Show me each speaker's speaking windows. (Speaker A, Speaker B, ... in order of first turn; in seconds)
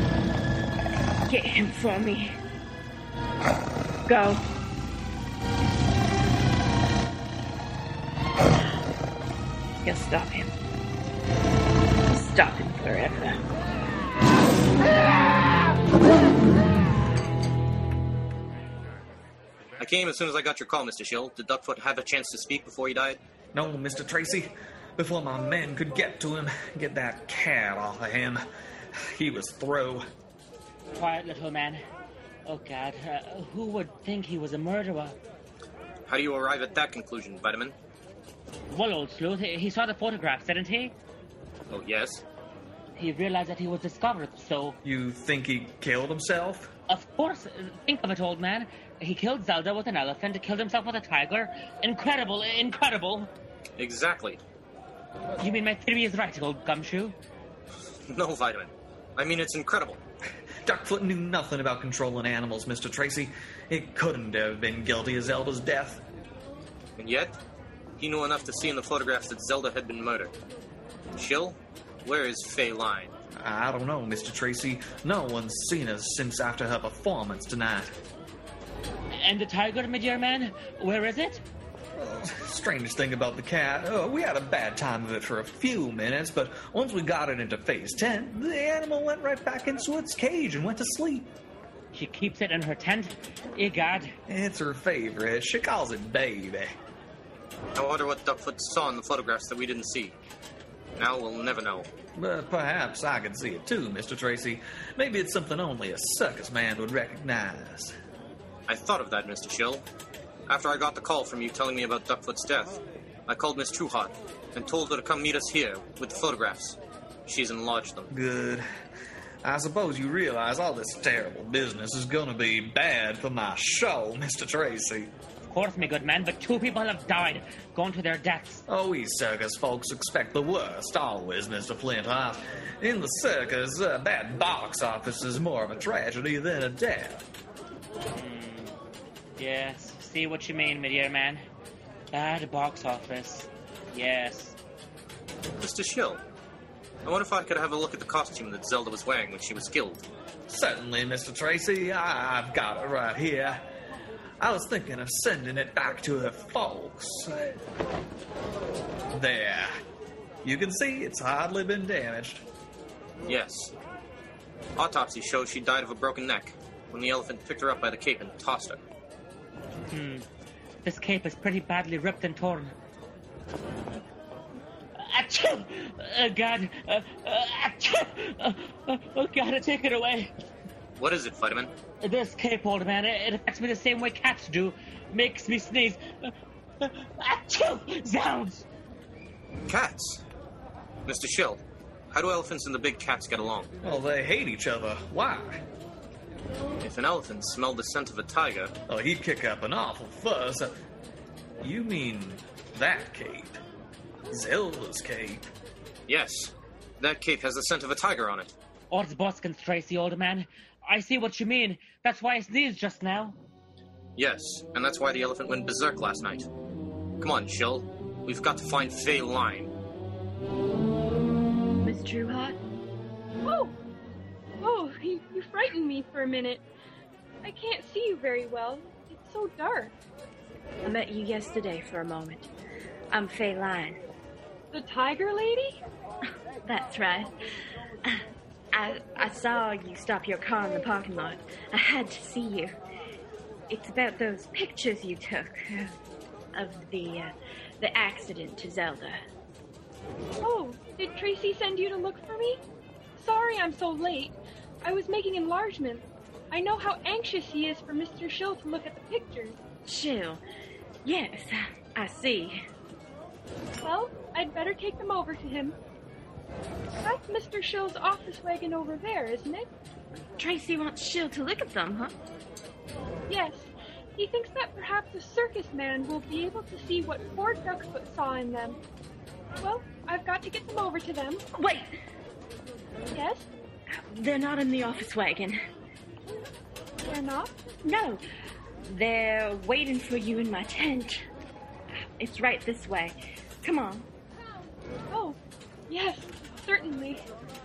Speaker A: 1.2-2.4, 4.0-4.4, 9.8-10.5, 12.1-13.4, 221.8-222.6, 230.8-232.5, 233.1-234.0, 236.6-237.3, 238.0-242.8, 243.7-245.9, 246.5-249.2, 259.8-260.4, 261.0-262.6, 270.4-272.1, 281.6-281.9, 283.9-285.6, 287.8-288.2, 288.8-291.2, 292.2-294.1
Speaker B: 19.8-23.2, 36.1-37.7, 41.7-42.2, 53.8-54.4, 58.1-60.0, 67.0-67.3, 68.0-70.3, 71.2-73.1, 97.8-100.2, 101.0-101.9, 108.7-109.8, 110.5-118.1, 145.6-146.2, 147.0-150.0, 163.2-163.7, 164.8-168.8, 181.0-181.7, 189.7-190.2, 191.1-191.6, 192.1-193.7, 196.8-198.7, 206.1-208.5, 214.2-216.5, 217.2-219.7
Speaker C: 23.5-28.4, 29.1-30.0, 44.8-46.7, 60.6-66.0, 73.4-77.9, 82.0-91.3, 94.3-96.7, 102.2-107.9, 118.1-118.6, 119.4-125.1, 128.7-137.2, 150.5-153.6, 154.4-157.5, 159.1-159.7, 160.4-162.4, 193.8-195.6, 198.9-200.7, 201.6-203.6, 204.3-205.5
Speaker D: 30.9-31.8, 32.5-35.1, 38.7-40.9, 43.0-44.8, 46.9-53.3, 55.4-57.1, 79.2-81.4, 91.9-94.2, 125.5-128.6, 138.1-138.8, 139.4-141.4, 142.1-144.6, 169.9-170.2, 170.8-172.7, 174.9-180.3, 182.0-188.6, 208.9-213.4
Speaker E: 223.4-223.8, 224.6-226.6, 227.4-229.9, 234.7-235.8, 250.4-252.6, 253.2-259.6, 263.8-265.8, 267.0-269.7, 273.3-278.8, 279.6-281.4, 283.1-283.5, 287.0-287.6, 295.1-297.2